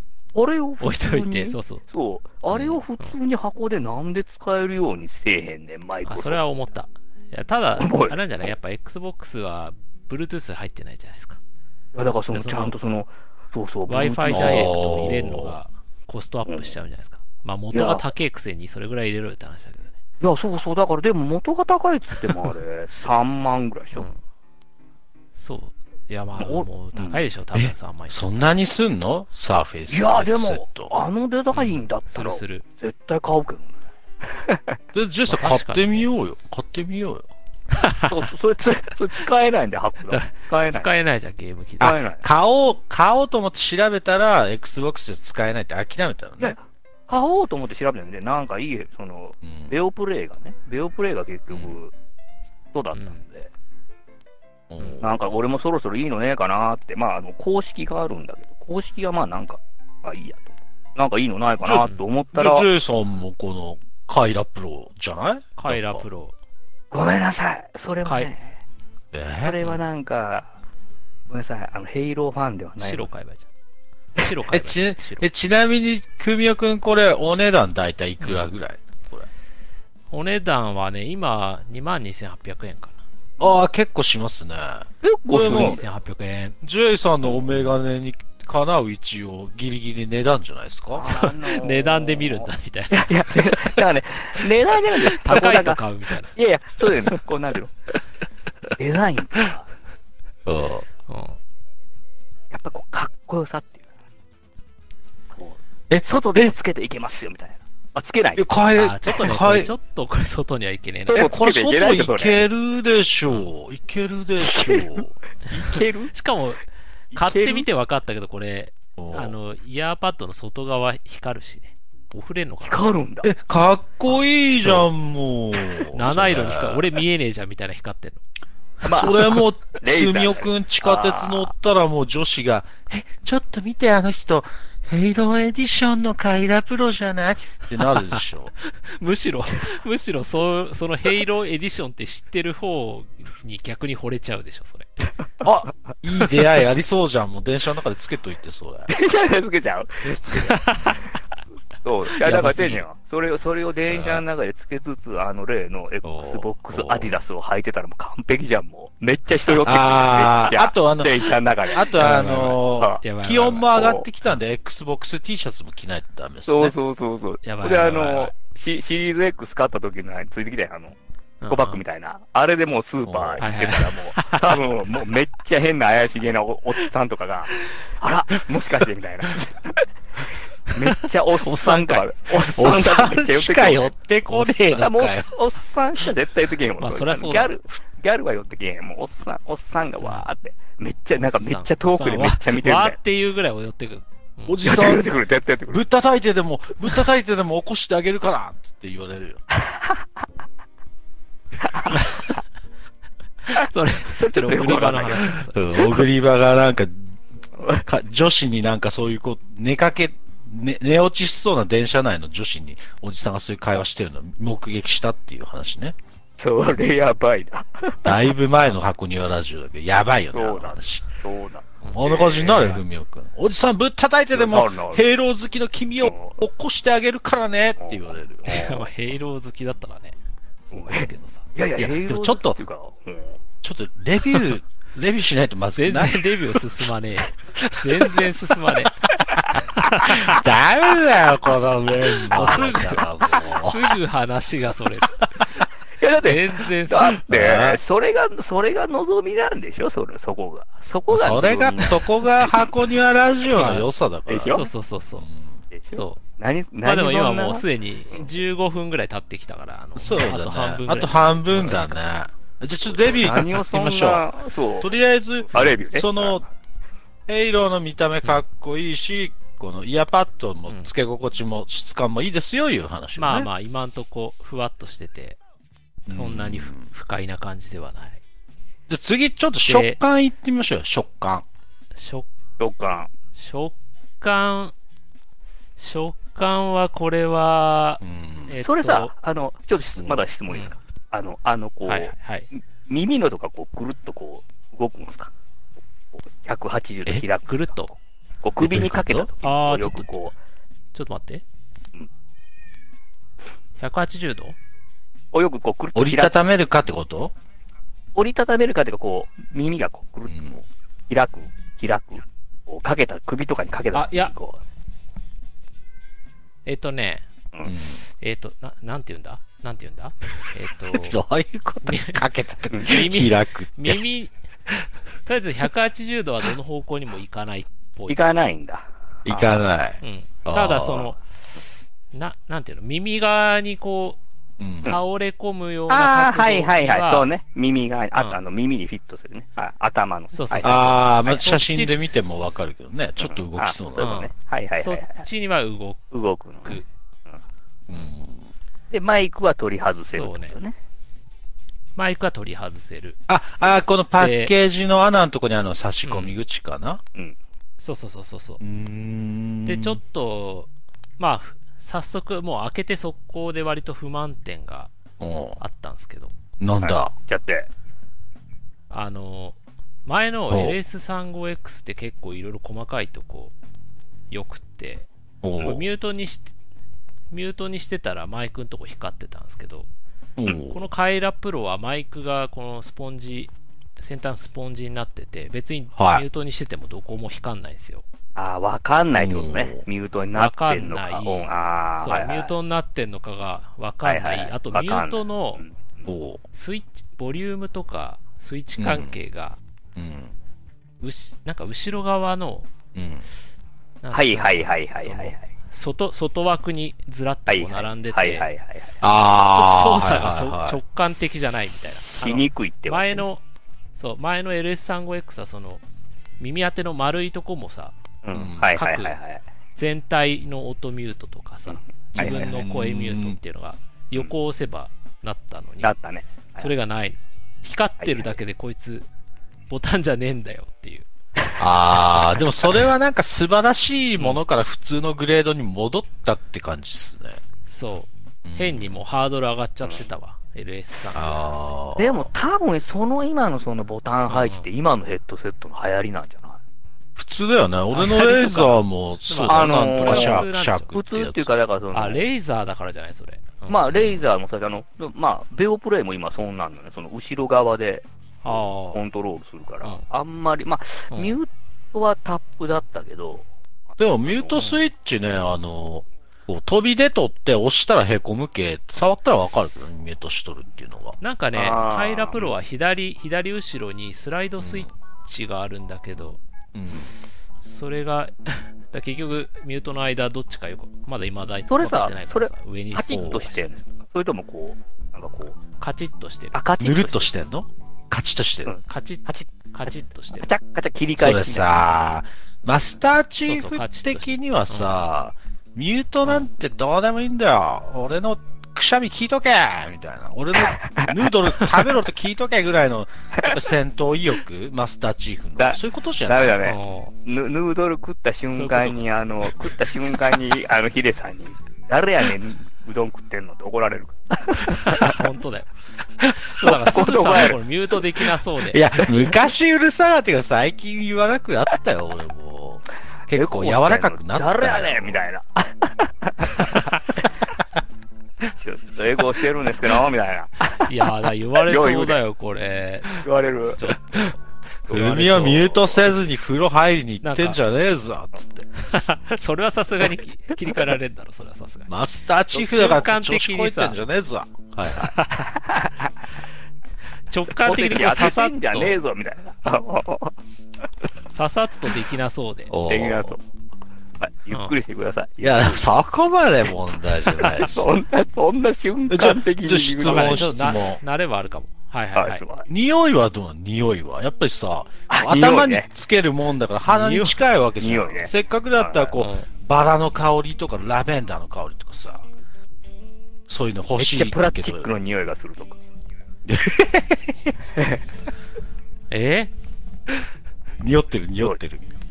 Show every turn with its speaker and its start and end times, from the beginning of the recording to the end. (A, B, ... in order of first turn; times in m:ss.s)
0:00.3-0:06.4 A
0:00.8-0:01.8 B
0:02.5-0:03.2 B
0:06.1-0:11.4 B
0:07.8-0:08.5 A
0:11.9-0:15.0 A
0:12.3-0:12.7 B
0:13.9-0:20.0 B
0:14.3-0:15.6 C
0:16.5-0:16.8 A
0:17.7-0:18.1 A
0:20.2-0:24.1 A
0:25.4-0:28.3 B
0:26.4-0:27.3 A
0:27.6-0:30.9 C
0:29.9-0:34.8 A
0:31.5-0:32.6 B
0:34.9-0:37.3 C
0:35.3-0:36.1 B
0:37.7-0:38.2 B
0:38.1-0:40.9 A
0:40.1-0:42.0 B
0:41.8-0:42.2 A
0:41.8-0:46.6 C
0:46.4-0:51.9 A
0:49.4-0:49.8 C
0:51.5-0:51.8 C
0:52.7-0:53.5 A
0:53.0-0:53.2 B
0:54.7-0:55.2 C
0:54.8-0:55.0 B
0:55.0-1:02.7 A
1:01.6-1:06.0 C
1:05.6-1:06.4 B
1:06.9-1:08.6 A
1:08.0-1:08.3 B
1:09.1-1:09.6 C
1:09.4-1:10.5 A
1:11.3-1:13.1 A
1:12.8-1:13.5 B
1:14.2-1:15.3 B
1:14.5-1:19.3 C
1:18.2-1:18.5 B
1:20.1-1:23.0 B
1:23.4-1:25.8 C
1:25.0-1:25.9 A
1:25.3-1:26.6 B
1:26.6-1:31.1 C
1:30.9-1:35.8 A
1:31.0-1:33.1 B
1:35.0-1:36.3 B
1:36.3-1:37.7 A
1:38.8-1:39.7 A
1:40.5-1:40.9 C
1:41.1-1:41.4 B
1:42.5-1:43.9 A
1:45.3-1:48.5 A
1:45.9-1:46.6 C
1:48.4-1:49.7 C
1:48.8-1:51.3 B
1:51.1-1:52.4 A
1:51.1-1:55.2 C
1:54.4-1:56.1 A
1:56.1-1:56.6 B
1:57.1-1:57.7 A
1:57.1-2:02.9 B
1:59.0-1:59.4 C
2:02.6-2:03.3 A
2:03.2-2:07.0 C
2:04.6-2:04.9 B
2:05.9-2:08.2 B
2:08.8-2:11.5 A
2:08.9-2:18.5 C
2:17.8-2:24.9 B
2:25.4-2:28.9 C
2:28.9-2:30.7 A
2:30.4-2:31.0 B
2:31.8-2:43.0 A
2:32.2-2:32.8 B
2:33.9-2:34.2 C
2:36.0-2:37.2 C
2:39.6-2:46.7 C
2:42.0-2:43.7 B
2:43.6-2:44.1 A
2:46.5-2:51.0 A
2:47.4-2:48.3 B
2:51.4-2:51.8 B
2:51.5-2:59.9 A
2:53.1-2:53.4 C
2:53.4-2:54.6 B
3:00.7-3:03.9 A
3:00.9-3:02.1 B
3:02.5-3:05.3 C
3:04.3-3:04.8 B
3:04.7-3:13.0 A
3:06.8-3:07.6 B
3:10.0-3:10.3 B
3:11.2-3:14.7 B
3:14.5-3:15.1 C
3:14.6-3:15.8 A
3:15.7-3:19.4 C
3:19.5-3:20.0 A
3:21.6-3:22.0 A
3:21.9-3:22.3 B
3:23.5-3:25.8 B
3:24.0-3:25.4 A
3:25.5-3:27.2 C
3:27.6-3:27.8 A
3:27.8-3:36.0 C
3:36.4-3:38.3 A
3:38.0-3:41.1 C
3:40.3-3:42.7 A
3:41.8-3:42.8 B
3:41.9-3:48.7 C
3:44.3-3:45.0 A
3:46.0-3:46.4 A
3:47.8-3:48.8 A
3:48.5-3:50.2 B
3:50.7-3:51.4 B
3:50.7-3:53.4 A
3:51.8-3:52.6 C
3:53.6-3:56.6 C
3:55.8-3:59.0 B
3:57.6-3:58.3 C
3:59.5-4:00.4 B
4:00.0-4:04.0 C
4:02.3-4:05.2 B
4:06.0-4:12.7 A
4:06.2-4:07.2 B
4:07.3-4:07.8 C
4:11.1-4:14.6 C
4:13.5-4:13.9 B
4:14.3-4:14.7 A
4:14.5-4:15.3 B
4:15.2-4:15.6 C
4:15.7-4:18.2 A
4:15.9-4:16.2 B
4:16.8-4:22.0 B
4:20.0-4:24.3 C
4:23.0-4:24.9 A
4:24.8-4:26.4 C
4:25.5-4:26.5 A
4:27.3-4:33.5 C
4:33.2-4:35.4 B
4:36.1-4:36.9 C
4:36.1-4:38.2 B
4:38.9-4:41.4 C
4:39.7-4:40.0 B
4:42.0-4:42.3 B
4:42.6-4:43.1 A
4:43.4-4:44.7 B
4:45.8-4:49.1 B
4:48.0-4:48.5 C
4:48.6-4:52.1 A
4:50.5-4:50.7 B
4:51.9-4:52.5 B
4:52.9-4:55.3 A
4:56.2-4:57.8 A
4:57.5-4:57.9 B
4:58.4-5:00.3 A
4:58.6-4:59.3 C
4:59.4-5:00.3 B
5:00.9-5:01.4 B
5:03.8-5:04.6 B
5:05.3-5:06.4 A
5:06.0-5:07.3 C
5:08.2-5:10.4 A
5:10.3-5:10.6 C
5:11.1-5:14.6 A
5:13.9-5:14.3 B
5:16.7-5:17.3 B
5:17.6-5:18.0 C
5:18.1-5:21.2 B
5:20.9-5:24.0 C
5:21.8-5:22.2 B
5:22.8-5:24.3 B
5:25.3-5:28.2 B
5:28.1-5:29.6 A
5:29.3-5:31.1 C
5:30.0-5:31.2 B
5:32.1-5:34.2 B
5:34.6-5:35.0 C
5:34.8-5:37.3 B
5:35.9-5:41.4 A
5:40.3-5:42.0 B
5:40.6-5:44.2 C
5:43.2-5:45.2 A
5:44.0-5:46.0 B
5:46.1-5:47.4 A
5:47.9-5:48.5 C
5:48.9-5:50.8 A
5:50.1-5:50.6 B
5:52.0-5:53.2 B
5:53.3-5:57.0 C
5:54.2-5:54.5 B
5:56.0-5:56.3 B
5:57.8-5:58.6 B
5:58.6-6:00.0 C
5:59.7-6:04.9 B
6:05.2-6:05.6 C
6:05.6-6:06.3 B
6:06.6-6:07.1 C
6:06.8-6:07.7 A
6:08.9-6:13.5 B
6:10.5-6:10.8 C
6:14.3-6:15.1 B
6:15.4-6:15.8 C
6:15.6-6:16.5 B
6:17.3-6:19.9 B
6:20.4-6:20.8 C
6:20.7-6:28.0 B
6:26.0-6:26.2 C
6:28.4-6:32.5 A
6:29.2-6:29.8 C
6:30.4-6:35.6 B
6:34.0-6:36.0 A
6:36.1-6:36.4 C
6:36.5-6:39.6 B
6:38.8-6:39.2 C
6:40.0-6:40.3 C
6:41.0-6:42.7 B
6:43.0-6:43.2 C
6:44.0-6:48.5 B
6:44.1-6:45.4 A
6:47.5-6:49.0 A
6:49.0-6:50.8 C
6:49.5-6:53.4 B
6:52.2-6:53.2 A
6:54.0-6:55.8 B
6:56.4-6:58.0 B
6:58.2-6:59.4 A
6:58.3-6:58.7 C
6:58.8-6:59.2 B
6:59.8-7:05.9 B
7:01.7-7:02.5 A
7:02.2-7:03.4 C
7:05.8-7:06.7 A
7:06.6-7:09.1 B
7:08.0-7:08.3 A
7:09.7-7:11.1 B
7:11.6-7:17.4 C
7:17.7-7:22.2 B
7:18.4-7:19.0 C
7:21.1-7:22.2 C
7:22.0-7:26.6 A
7:24.3-7:24.7 B
7:27.2-7:31.5 C
7:27.9-7:31.0 B
7:29.5-7:32.2 A
7:31.9-7:34.2 B
7:33.7-7:44.6 A
7:38.4-7:39.0 B
7:41.1-7:41.4 B
7:44.0-7:51.2 C
7:51.2-7:56.4 B
7:51.5-7:52.5 A
7:54.6-7:54.9 C
7:56.7-7:57.1 C
7:57.6-8:03.9 B
8:01.7-8:05.6 A
8:03.1-8:03.4 C
8:05.8-8:06.6 B
8:06.5-8:07.3 A
8:06.8-8:08.7 C
8:08.7-8:11.7 A
8:08.9-8:10.5 B
8:11.2-8:26.6 C
8:13.4-8:15.0 B
8:20.6-8:21.2 A
8:23.4-8:23.6 A
8:25.6-8:35.2 A
8:26.6-8:27.1 B
8:28.5-8:29.0 B
8:34.8-8:35.7 B
8:36.6-8:39.0 B
8:36.6-8:37.6 A
8:38.7-8:45.2 C
8:43.3-8:47.2 A
8:48.6-8:50.9 A
8:50.8-8:53.2 B
8:51.6-8:52.2 A
8:53.1-8:53.8 A
8:53.8-8:54.4 B
8:54.9-8:56.0 A
8:54.9-8:58.7 C
8:54.9-8:55.8 B
8:57.2-8:57.6 B
8:58.9-9:01.9 B
9:01.9-9:05.1 C
9:02.5-9:04.0 B
9:05.0-9:05.6 B
9:05.5-9:06.1 A
9:07.3-9:09.0 B
9:07.6-9:10.4 A
9:11.3-9:12.7 B
9:12.7-9:13.4 C
9:12.9-9:13.4 A
9:14.2-9:15.9 A
9:15.4-9:17.9 C
9:17.4-9:20.5 A
9:19.1-9:21.0 C
9:20.0-9:22.4 B
9:22.2-9:22.7 A
9:22.7-9:32.3 C
9:25.1-9:25.9 A
9:26.9-9:27.4 B
9:27.8-9:29.2 A
9:29.2-9:29.5 B
9:33.5-9:34.9 C
9:34.0-9:35.8 A
9:36.5-9:37.6 C
9:37.8-9:38.0 A
9:39.1-9:39.5 B
9:40.8-9:41.9 C